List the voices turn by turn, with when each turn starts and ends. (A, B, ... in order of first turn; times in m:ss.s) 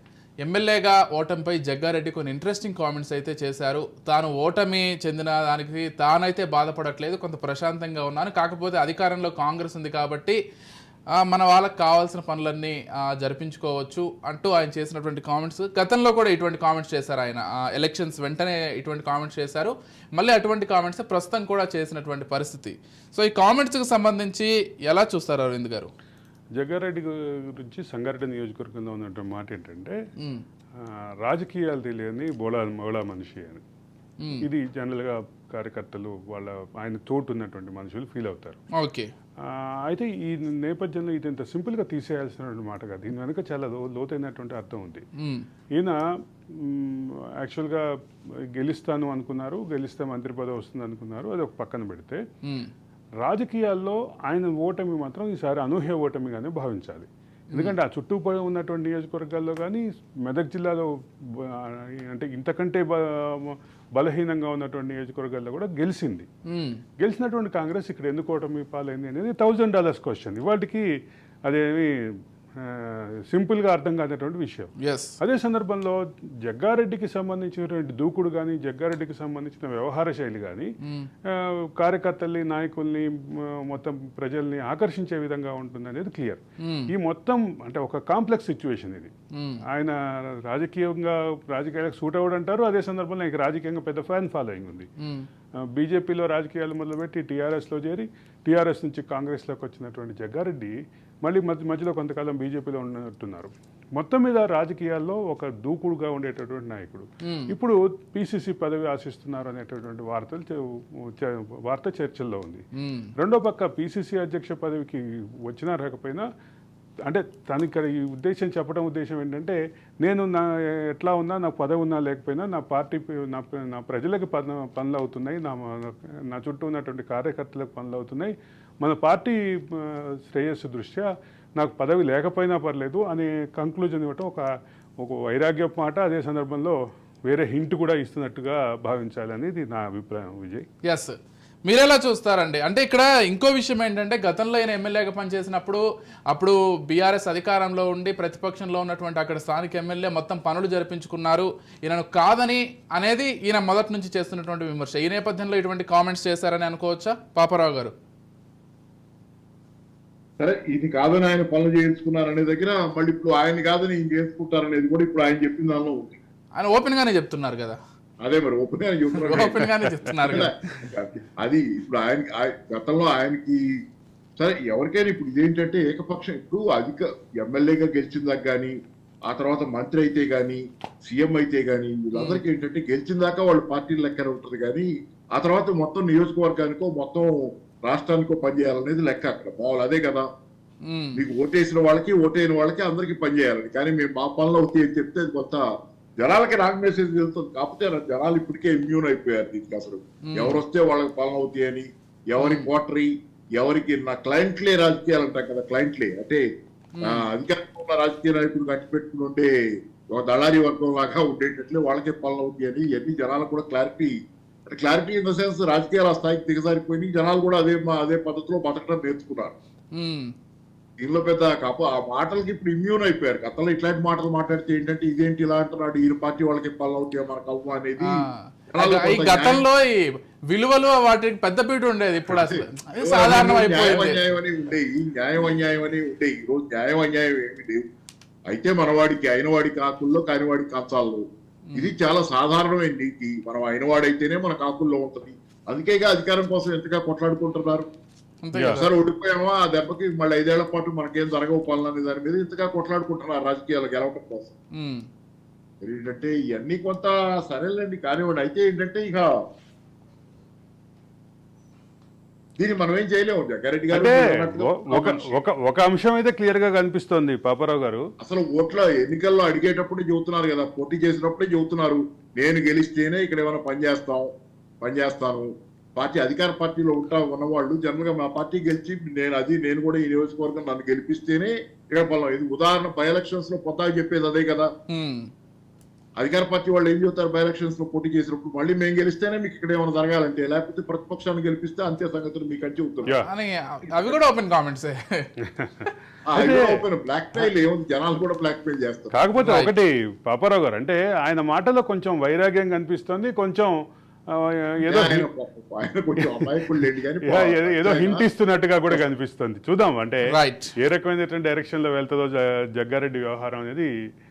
0:00.4-0:10.4 A
0:11.2-0:25.9 A
0:26.6-0:30.0 B
0:31.2-0:33.6 B
0:34.4-0:38.6 B
0:38.7-0:39.1 A
0:39.4-0:45.0 B
0:45.2-0:45.4 A
0:46.6-0:47.8 B
0:48.6-0:52.2 B
0:52.4-0:52.7 A
0:53.2-1:06.3 B
1:06.5-1:06.8 A
1:07.0-1:10.8 B
1:11.5-1:11.9 B
1:12.6-1:20.7 B
1:14.8-1:15.2 A
1:20.8-1:21.1 A
1:21.3-1:29.1 B
1:26.6-1:26.9 A
1:29.3-1:29.6 A
1:29.7-1:34.9 B
1:35.0-1:35.2 A
1:35.7-1:40.7 B
1:41.2-1:50.6 B
1:47.2-1:47.5 A
1:51.2-1:52.6 B
1:52.7-1:53.1 A
1:53.2-1:56.2 B
1:57.1-2:11.1 B
2:11.6-2:14.4 B
2:15.0-2:20.6 B
2:20.8-2:37.9 A
2:40.4-2:46.2 C
2:46.6-2:47.8 A
2:48.2-2:49.6 C
2:49.3-2:50.5 A
2:49.3-2:50.9 B
2:50.3-2:53.6 C
2:54.4-2:58.7 C
2:59.3-3:10.3 C
3:02.1-3:02.4 A
3:10.8-3:11.2 A
3:11.2-3:15.7 C
3:16.2-3:26.4 C
3:20.3-3:20.6 A
3:22.4-3:22.7 A
3:27.0-3:27.2 A
3:27.0-3:29.5 C
3:30.1-3:34.1 C
3:34.7-3:39.5 C
3:40.0-3:40.3 A
3:41.0-3:48.1 C
3:48.0-3:54.2 A
3:48.7-3:49.6 C
3:52.3-3:57.8 C
3:58.5-4:01.2 C
4:01.8-4:07.9 C
4:08.4-4:08.9 A
4:08.5-4:08.8 B
4:08.8-4:14.5 C
4:14.8-4:15.0 A
4:15.8-4:19.3 C
4:22.6-4:25.3 C
4:23.9-4:28.0 B
4:28.2-4:34.3 C
4:34.8-4:44.7 C
4:44.9-4:45.3 A
4:46.2-4:53.2 C
4:53.2-4:55.3 A
4:55.5-4:56.8 B
4:56.3-4:59.2 C
4:59.1-5:03.7 B
4:59.4-4:59.7 A
5:04.3-5:05.3 B
5:04.8-5:08.2 C
5:06.2-5:06.5 B
5:07.2-5:10.2 B
5:10.3-5:10.7 A
5:10.8-5:13.9 B